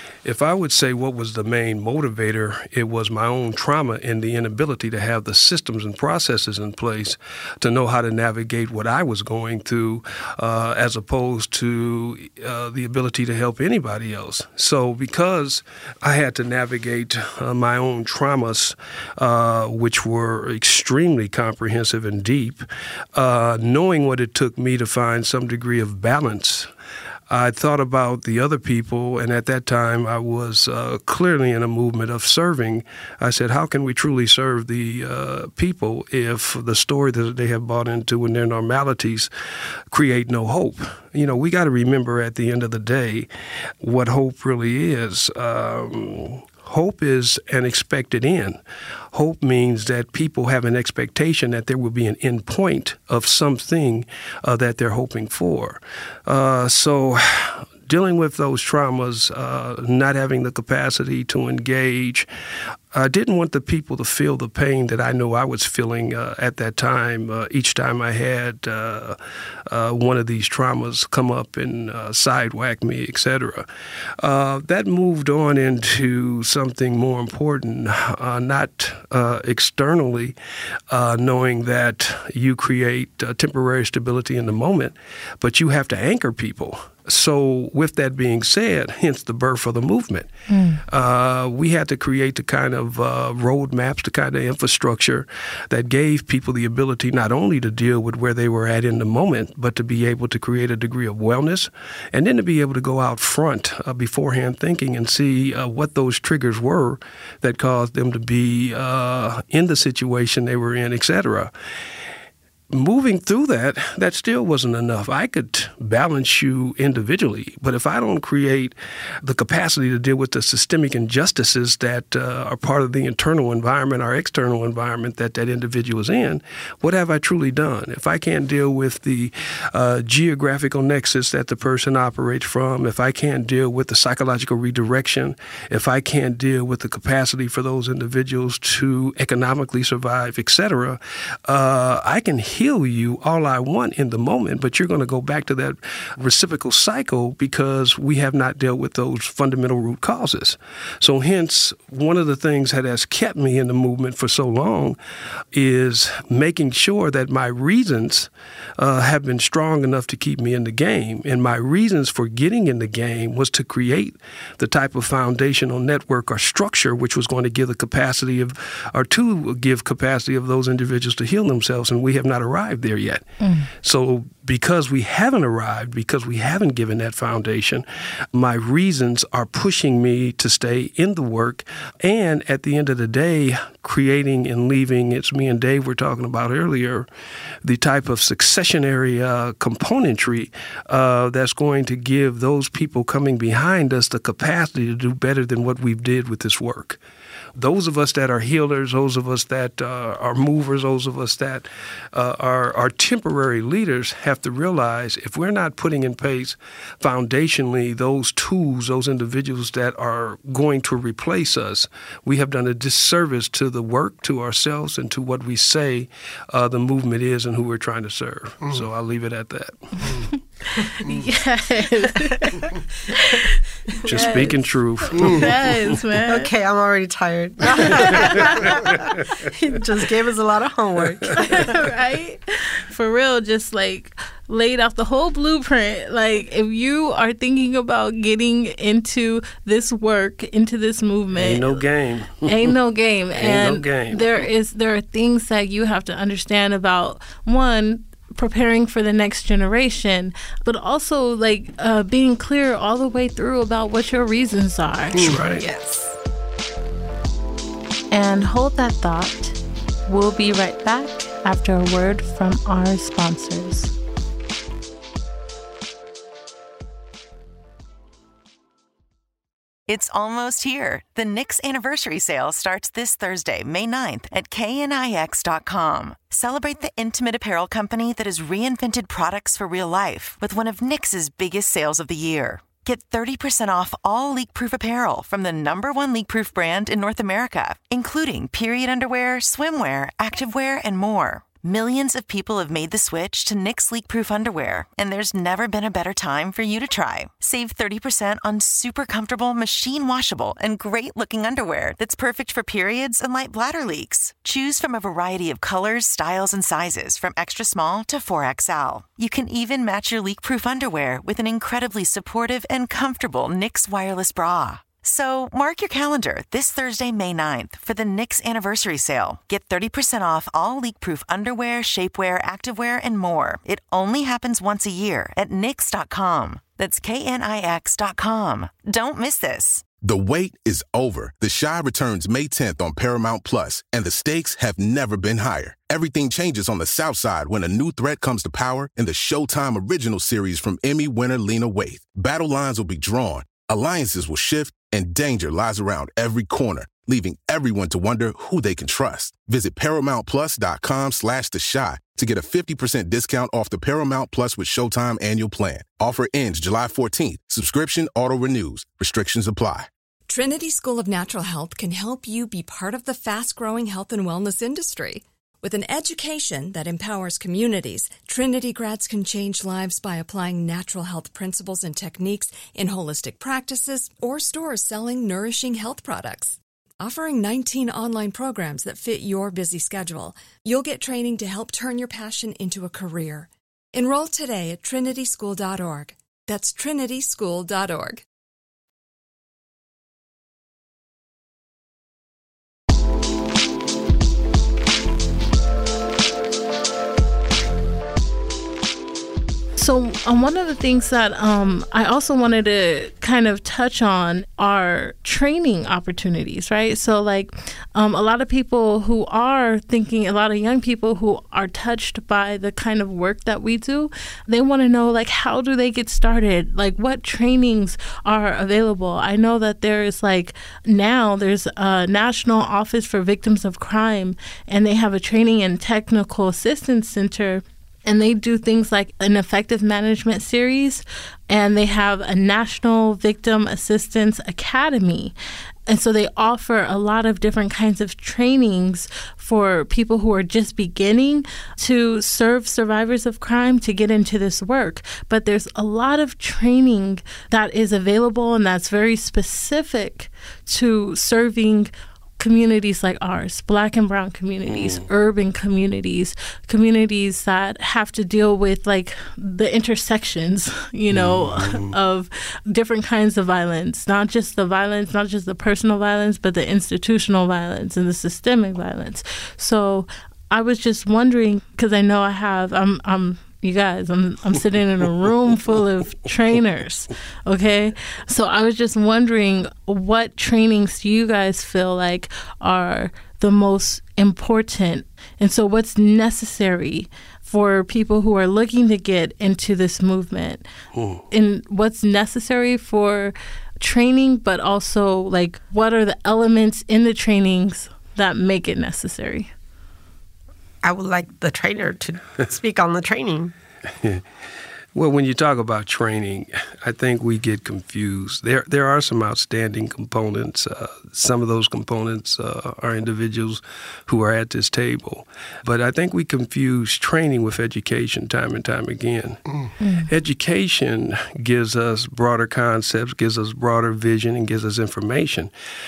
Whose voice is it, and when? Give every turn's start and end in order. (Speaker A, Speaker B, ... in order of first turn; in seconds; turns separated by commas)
Speaker A: 0.2-22.6, Speaker A: 23.1-26.7, Speaker A: 27.3-39.3, Speaker A: 39.9-43.3, Speaker A: 43.8-48.6, Speaker A: 49.1-62.3, Speaker A: 62.9-73.7, Speaker A: 74.2-80.3, Speaker A: 80.9-90.3, Speaker B: 90.5-90.8, Speaker A: 90.9-111.5, Speaker A: 112.7-155.0, Speaker A: 155.5-173.2, Speaker B: 173.4-173.7, Speaker A: 173.8-187.1, Speaker A: 187.6-197.0, Speaker A: 197.6-220.2, Speaker B: 220.8-222.7, Speaker C: 222.6-223.4, Speaker B: 223.2-226.5, Speaker C: 224.1-224.5, Speaker A: 224.1-225.5, Speaker C: 226.2-231.7, Speaker B: 227.8-228.3, Speaker B: 231.3-241.8, Speaker A: 241.3-242.7, Speaker B: 242.4-255.3, Speaker A: 243.3-244.5, Speaker A: 255.2-255.6, Speaker C: 255.6-256.1, Speaker B: 258.1-263.9, Speaker D: 269.9-329.9, Speaker E: 330.0-359.9, Speaker F: 360.3-388.2, Speaker B: 399.8-435.3, Speaker B: 435.9-490.6, Speaker A: 454.7-455.1, Speaker A: 461.1-461.9, Speaker A: 490.9-491.2, Speaker B: 491.3-499.5, Speaker C: 500.8-503.5, Speaker A: 504.9-519.4, Speaker B: 519.8-520.1, Speaker A: 520.1-525.5